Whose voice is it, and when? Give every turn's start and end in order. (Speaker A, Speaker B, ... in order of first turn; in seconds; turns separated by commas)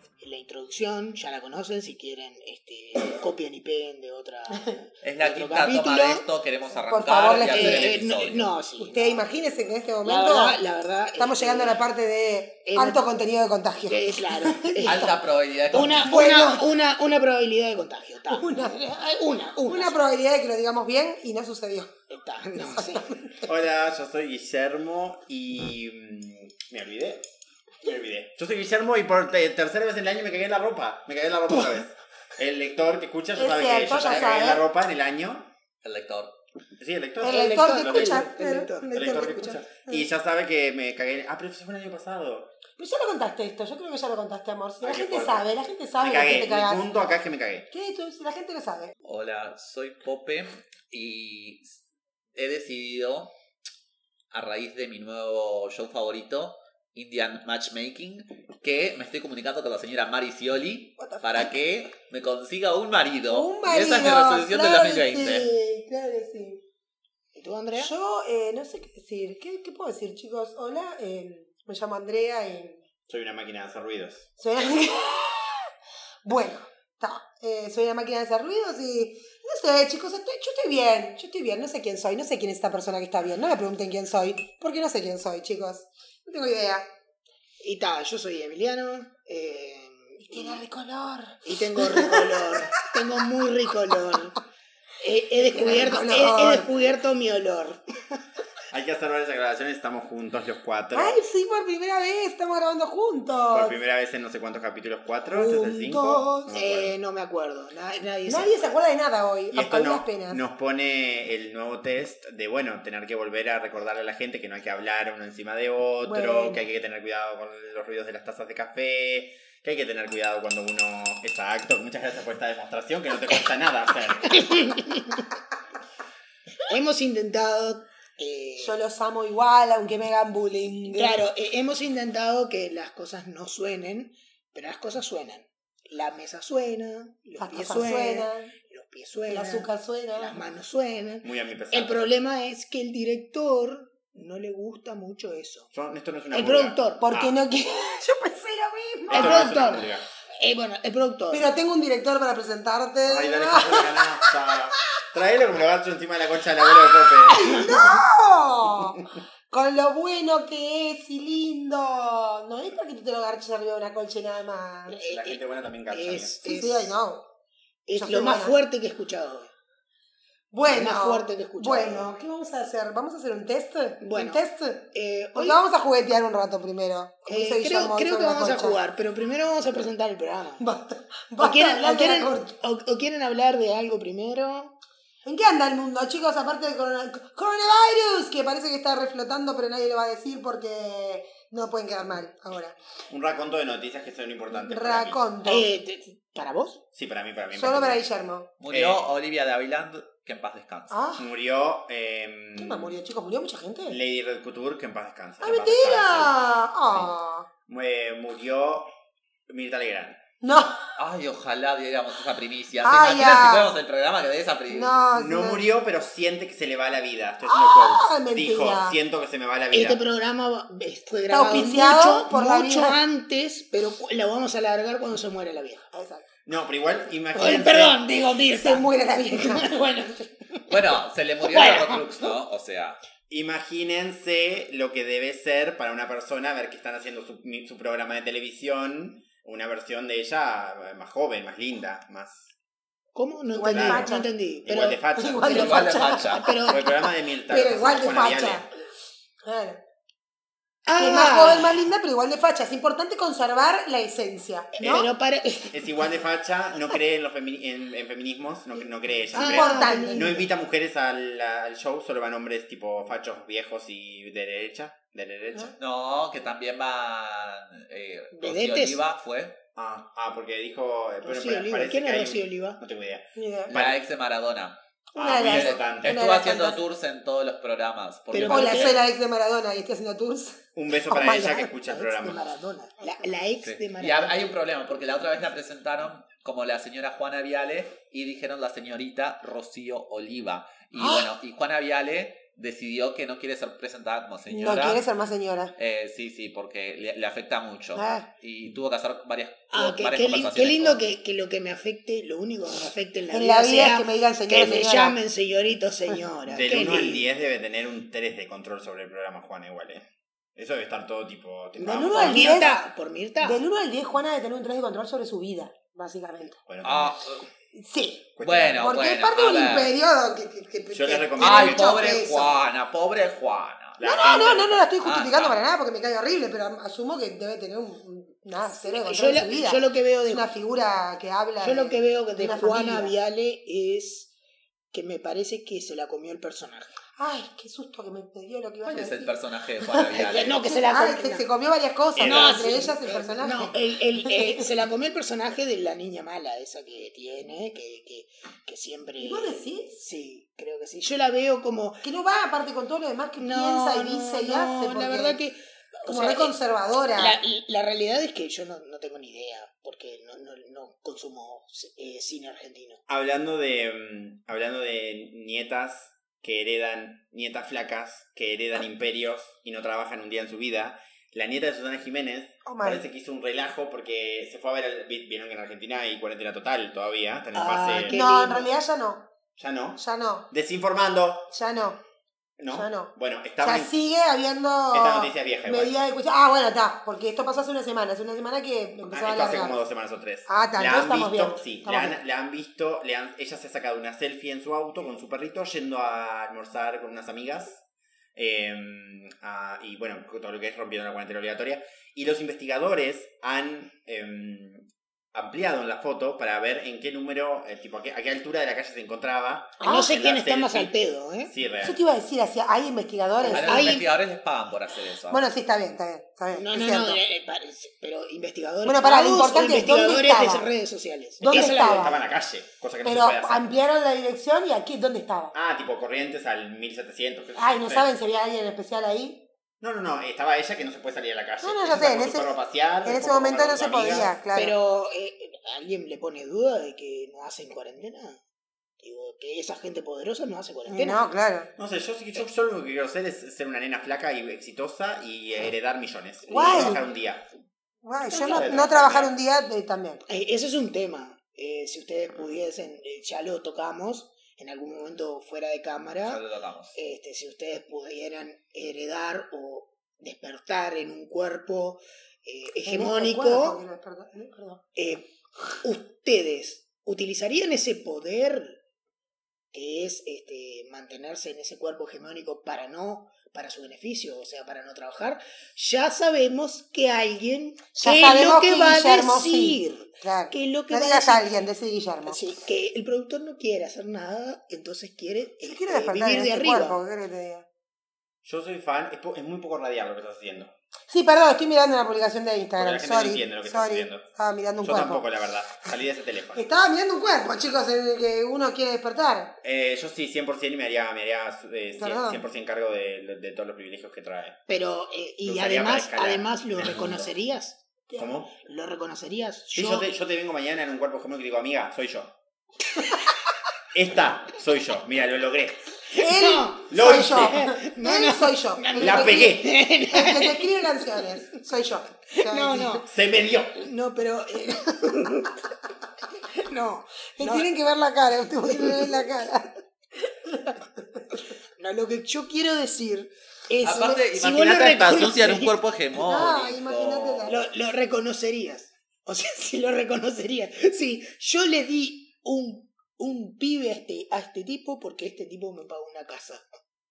Speaker A: 0.2-6.2, Speaker B: 5.0-8.5, Speaker C: 6.9-7.9, Speaker A: 7.5-9.2, Speaker C: 8.8-10.6, Speaker A: 10.0-11.8, Speaker C: 11.2-15.2, Speaker A: 12.7-13.1, Speaker A: 13.9-15.2, Speaker B: 14.8-16.1, Speaker A: 15.7-20.0, Speaker C: 16.0-16.7, Speaker C: 18.3-18.8, Speaker C: 19.7-21.9, Speaker A: 22.1-23.0, Speaker C: 22.7-23.4, Speaker D: 23.4-27.3, Speaker D: 27.8-35.5, Speaker C: 33.4-34.6, Speaker B: 35.8-36.4, Speaker D: 36.8-38.3, Speaker C: 37.2-40.1, Speaker A: 37.3-38.9, Speaker D: 38.9-42.5, Speaker C: 42.8-46.9, Speaker D: 44.8-45.5, Speaker D: 46.0-47.7, Speaker C: 47.7-48.9, Speaker B: 49.0-51.8, Speaker B: 52.4-53.3, Speaker B: 54.3-65.5, Speaker C: 61.0-61.5, Speaker C: 63.3-66.6, Speaker A: 67.3-67.9, Speaker C: 67.8-72.8, Speaker D: 73.1-74.3, Speaker C: 74.4-75.7, Speaker C: 76.2-86.9, Speaker A: 87.6-90.6, Speaker C: 90.3-92.7, Speaker A: 91.5-94.4, Speaker A: 95.0-98.2, Speaker C: 95.4-96.7, Speaker D: 98.7-101.2, Speaker C: 100.9-103.8, Speaker D: 103.5-107.0, Speaker C: 105.3-106.5, Speaker A: 106.5-108.7, Speaker C: 108.3-110.4, Speaker D: 109.5-124.5, Speaker C: 116.0-116.7, Speaker A: 124.2-125.2, Speaker A: 126.7-128.8, Speaker C: 128.6-131.2, Speaker A: 130.9-145.7, Speaker C: 137.4-138.5, Speaker C: 139.3-140.4, Speaker D: 141.2-142.1, Speaker D: 145.7-147.4, Speaker A: 146.3-147.0, Speaker C: 147.0-149.8, Speaker D: 149.1-150.0, Speaker A: 149.1-151.5, Speaker C: 151.3-154.3, Speaker D: 153.1-157.7, Speaker C: 156.8-165.0, Speaker A: 157.5-158.0, Speaker A: 164.9-167.0, Speaker D: 165.1-166.4, Speaker C: 166.4-167.3, Speaker A: 167.9-169.5, Speaker C: 168.0-168.6, Speaker C: 170.5-178.8, Speaker A: 170.7-172.1, Speaker A: 174.0-175.6, Speaker A: 177.3-180.6, Speaker C: 180.6-182.5, Speaker A: 181.4-184.8, Speaker C: 185.2-192.8, Speaker D: 193.1-195.2, Speaker C: 194.5-195.7, Speaker A: 195.4-196.8, Speaker D: 196.9-198.0, Speaker C: 197.5-198.5, Speaker B: 198.6-200.9, Speaker D: 198.7-199.0, Speaker C: 200.9-201.2, Speaker D: 201.2-203.0, Speaker C: 202.6-204.0, Speaker D: 203.9-206.3, Speaker C: 205.4-207.5, Speaker D: 206.9-207.1, Speaker D: 207.7-208.9, Speaker D: 209.5-210.2, Speaker C: 210.4-210.9, Speaker B: 211.0-215.0, Speaker C: 212.8-213.7, Speaker C: 214.7-215.6, Speaker D: 215.1-220.0, Speaker C: 217.4-219.0, Speaker A: 219.7-225.9, Speaker C: 221.3-223.0, Speaker C: 225.9-226.3, Speaker D: 226.5-228.0, Speaker C: 227.4-227.6, Speaker A: 227.4-230.8, Speaker C: 228.6-229.8, Speaker B: 230.7-233.0, Speaker A: 231.5-232.3, Speaker D: 233.3-242.5, Speaker A: 243.2-246.9, Speaker C: 243.5-244.3, Speaker D: 243.7-244.1, Speaker D: 244.7-245.8, Speaker C: 245.2-248.7, Speaker B: 245.5-246.5, Speaker D: 246.7-248.7, Speaker C: 249.4-249.8, Speaker A: 250.9-251.8, Speaker C: 251.0-255.1, Speaker A: 254.8-255.9, Speaker D: 254.8-255.1, Speaker D: 255.7-265.8, Speaker A: 259.3-260.5, Speaker C: 259.3-260.4, Speaker B: 265.8-269.6, Speaker A: 268.3-269.0, Speaker D: 269.8-274.0, Speaker A: 271.2-272.8, Speaker C: 273.4-273.8, Speaker B: 273.7-279.0, Speaker C: 275.1-276.8, Speaker D: 275.2-276.2, Speaker A: 278.3-279.0, Speaker C: 278.5-281.7, Speaker D: 280.8-282.4, Speaker A: 281.1-284.4, Speaker B: 283.6-295.0, Speaker C: 290.9-291.3, Speaker C: 294.5-295.8, Speaker B: 295.8-301.0, Speaker C: 298.0-298.3, Speaker A: 299.7-307.3, Speaker C: 303.3-305.2, Speaker D: 306.4-312.8, Speaker A: 311.8-313.7, Speaker C: 312.1-312.7, Speaker C: 313.4-316.6, Speaker D: 316.7-317.2, Speaker B: 316.8-317.5, Speaker C: 317.7-322.6, Speaker D: 318.4-319.0, Speaker B: 318.4-319.9, Speaker D: 320.9-322.0, Speaker B: 321.4-324.0, Speaker D: 324.0-324.8, Speaker C: 324.0-333.1, Speaker B: 325.0-325.6, Speaker A: 328.8-330.5, Speaker A: 331.6-334.3, Speaker A: 334.9-337.0, Speaker C: 337.2-340.1, Speaker B: 338.9-340.7, Speaker A: 340.1-341.5, Speaker C: 340.7-344.6, Speaker D: 342.2-343.0, Speaker A: 342.2-352.0, Speaker C: 349.2-350.0, Speaker C: 352.0-355.4, Speaker A: 353.4-356.5, Speaker C: 356.1-357.4, Speaker A: 357.2-363.0, Speaker D: 363.1-378.2, Speaker C: 372.6-373.1, Speaker A: 377.5-378.7, Speaker C: 378.0-379.3, Speaker D: 379.6-381.5, Speaker C: 380.0-380.5, Speaker C: 381.5-382.0, Speaker D: 382.6-383.9, Speaker C: 382.7-389.8, Speaker D: 384.9-385.9, Speaker D: 389.1-397.8, Speaker C: 390.5-392.2, Speaker D: 398.4-412.0, Speaker C: 409.8-410.1, Speaker A: 409.8-411.5, Speaker C: 411.8-414.1, Speaker A: 413.4-414.1, Speaker B: 413.5-415.5, Speaker C: 415.3-417.2, Speaker A: 416.6-422.2, Speaker C: 418.8-420.7, Speaker C: 421.4-422.2, Speaker D: 421.5-423.8, Speaker C: 423.0-425.5, Speaker D: 425.5-428.1, Speaker C: 427.6-429.5, Speaker D: 429.8-434.3, Speaker C: 431.6-432.5, Speaker C: 433.0-434.8, Speaker A: 434.5-438.4, Speaker A: 439.0-441.2, Speaker C: 440.9-441.7, Speaker D: 441.8-447.5, Speaker C: 446.5-447.0, Speaker A: 446.6-447.0, Speaker C: 448.0-450.2, Speaker A: 448.3-448.9, Speaker D: 448.4-449.3, Speaker A: 450.3-456.4, Speaker B: 456.2-457.0, Speaker A: 456.9-463.8, Speaker C: 462.8-464.8, Speaker A: 465.0-468.8, Speaker A: 469.7-481.5, Speaker C: 478.0-482.4, Speaker A: 482.3-487.0, Speaker C: 485.6-487.7, Speaker D: 488.4-490.7, Speaker C: 491.1-495.2, Speaker D: 492.8-494.3, Speaker D: 494.8-496.7, Speaker C: 496.6-499.6, Speaker D: 499.6-504.6, Speaker C: 502.0-502.4, Speaker A: 504.7-507.9, Speaker D: 505.4-507.3, Speaker B: 506.8-507.1, Speaker C: 508.1-508.4, Speaker D: 508.2-508.5, Speaker A: 508.6-510.1, Speaker D: 509.7-512.4, Speaker D: 513.9-515.9, Speaker C: 516.1-523.1, Speaker A: 516.1-521.2, Speaker D: 516.9-517.6, Speaker D: 519.0-519.7, Speaker A: 522.3-523.1, Speaker D: 523.1-523.9, Speaker A: 523.8-525.6, Speaker A: 526.5-527.7, Speaker C: 527.4-531.4, Speaker A: 528.6-529.3, Speaker A: 531.8-535.7, Speaker B: 533.8-537.6, Speaker C: 535.1-535.6, Speaker C: 536.1-537.6, Speaker A: 537.5-546.6